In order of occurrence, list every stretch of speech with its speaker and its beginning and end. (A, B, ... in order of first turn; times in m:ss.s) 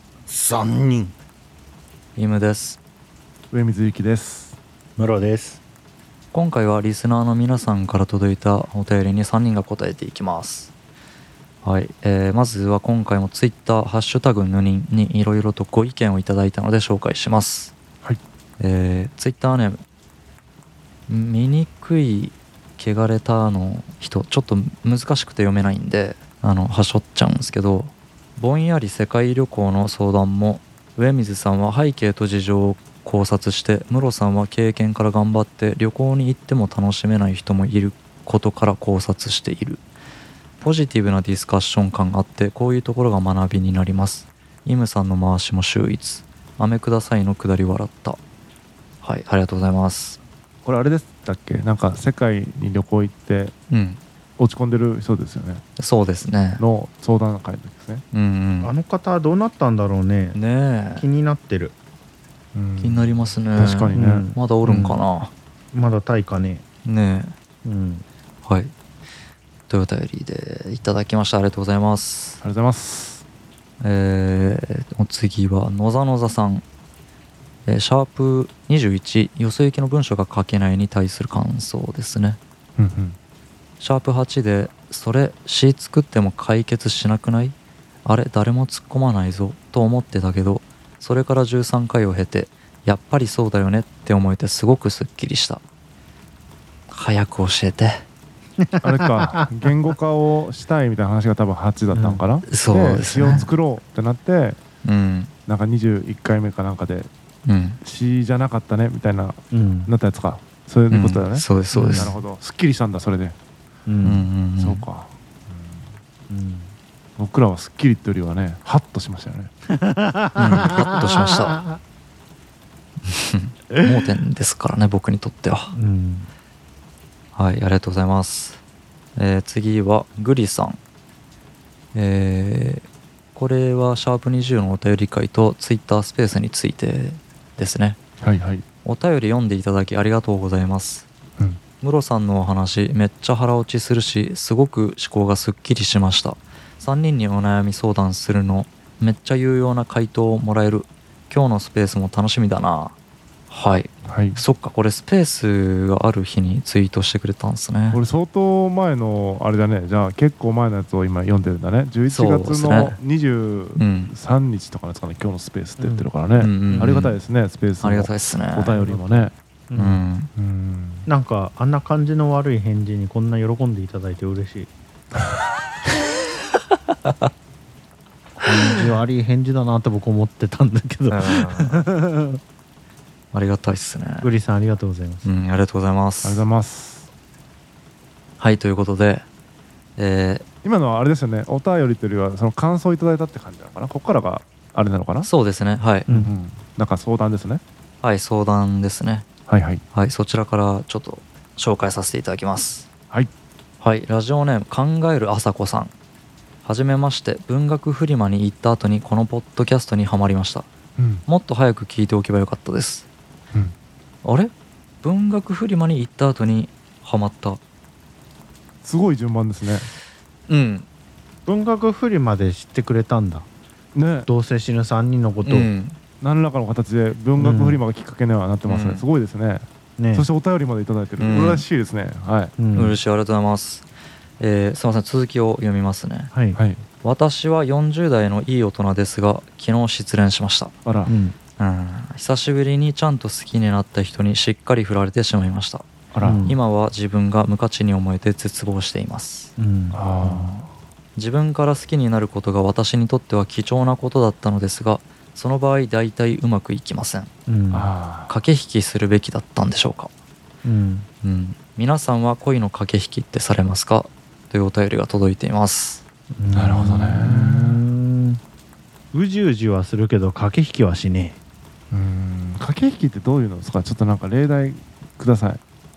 0:00.3-0:01.1 A
0:02.2-0:02.8 B
0:03.5-0:04.6 C
0:05.0-0:05.6 A
0:06.3-0:10.7 B
0:11.6-0:17.7 B
0:18.6-0:19.8 B
0:21.1-0:39.8 B
0:40.6-0:48.2 B
0:49.0-0:50.2 B
0:50.6-0:53.5 C
0:53.7-0:54.0 B
0:54.4-0:55.6 C
0:55.8-0:56.6 B
0:56.6-0:58.0 C
0:58.1-0:58.7 B
0:58.6-1:00.4 A
1:00.3-1:01.0 B
1:00.9-1:01.7 A
1:02.5-1:04.3 C
1:02.8-1:05.3 B
1:03.9-1:05.0 A
1:05.7-1:06.6 A
1:06.8-1:07.3 B
1:07.6-1:08.0 A
1:08.4-1:08.7 B
1:09.7-1:12.4 B
1:12.4-1:13.2 C
1:13.8-1:16.6 B
1:17.6-1:22.4 B
1:22.8-1:23.2 C
1:23.8-1:35.6 B
1:36.9-1:38.0 B
1:38.6-1:39.4 A
1:38.8-1:44.6 C
1:41.9-1:42.2 A
1:42.4-1:43.5 B
1:44.8-1:45.3 B
1:45.5-1:47.1 C
1:47.4-1:47.8 B
1:47.8-1:53.4 C
1:49.5-1:49.9 A
1:50.9-1:52.1 B
1:51.7-1:52.2 A
1:53.8-1:54.2 A
1:54.0-1:54.8 B
1:54.6-1:55.9 C
1:56.3-1:56.7 A
1:57.2-1:59.5 C
1:59.7-2:01.8 A
2:00.4-2:01.6 B
2:03.0-2:05.7 B
2:05.7-2:06.3 A
2:07.3-2:08.6 B
2:09.2-2:10.8 B
2:11.9-2:18.0 B
2:18.2-2:18.6 C
2:18.8-2:21.1 B
2:21.8-2:32.9 B
2:33.5-2:38.0 B
2:34.0-2:34.4 C
2:37.9-2:49.3 C
2:42.1-2:43.0 B
2:43.8-2:44.1 B
2:45.8-2:46.1 A
2:46.4-2:47.1 B
2:46.7-2:47.1 A
2:47.8-2:48.8 B
2:48.8-2:50.0 A
2:49.7-2:50.3 B
2:50.3-2:51.1 C
2:51.1-2:54.7 A
2:57.0-2:57.3 B
2:58.4-3:02.4 A
3:01.1-3:01.8 B
3:03.3-3:04.3 B
3:04.2-3:05.3 A
3:05.2-3:06.4 B
3:06.2-3:07.1 C
3:08.4-3:09.3 B
3:10.0-3:10.4 B
3:10.6-3:15.3 C
3:15.2-3:16.1 B
3:16.1-3:17.6 C
3:18.0-3:19.3 B
3:19.5-3:19.8 C
3:19.9-3:22.9 B
3:23.8-3:25.9 B
3:26.6-3:30.7 B
3:31.0-3:31.2 C
3:31.2-3:33.1 B
3:34.2-3:34.5 B
3:35.0-3:37.6 B
3:38.8-3:39.9 C
3:40.5-3:40.9 B
3:41.5-3:43.5 A
3:43.9-3:44.3 C
3:44.2-3:45.7 A
3:45.4-3:46.0 B
3:46.2-3:52.5 C
3:47.4-3:47.8 A
3:48.7-3:49.0 B
3:50.0-3:50.3 A
3:51.2-3:51.6 B
3:52.6-3:53.0 A
3:52.7-3:53.8 B
3:54.4-3:56.3 B
3:56.3-3:56.6 A
3:56.5-3:56.8 C
3:57.0-4:00.8 B
4:00.8-4:01.1 C
4:01.0-4:01.4 A
4:01.6-4:05.9 B
4:06.1-4:06.4 C
4:06.2-4:06.6 A
4:06.4-4:09.5 B
4:09.6-4:10.7 A
4:09.9-4:10.7 C
4:11.2-4:17.3 B
4:17.5-4:17.9 A
4:17.7-4:18.3 C
4:18.3-4:20.1 B
4:20.6-4:21.1 A
4:21.2-4:26.0 B
4:26.3-4:28.4 A
4:26.5-4:27.8 C
4:29.1-4:31.4 A
4:31.9-4:35.6 C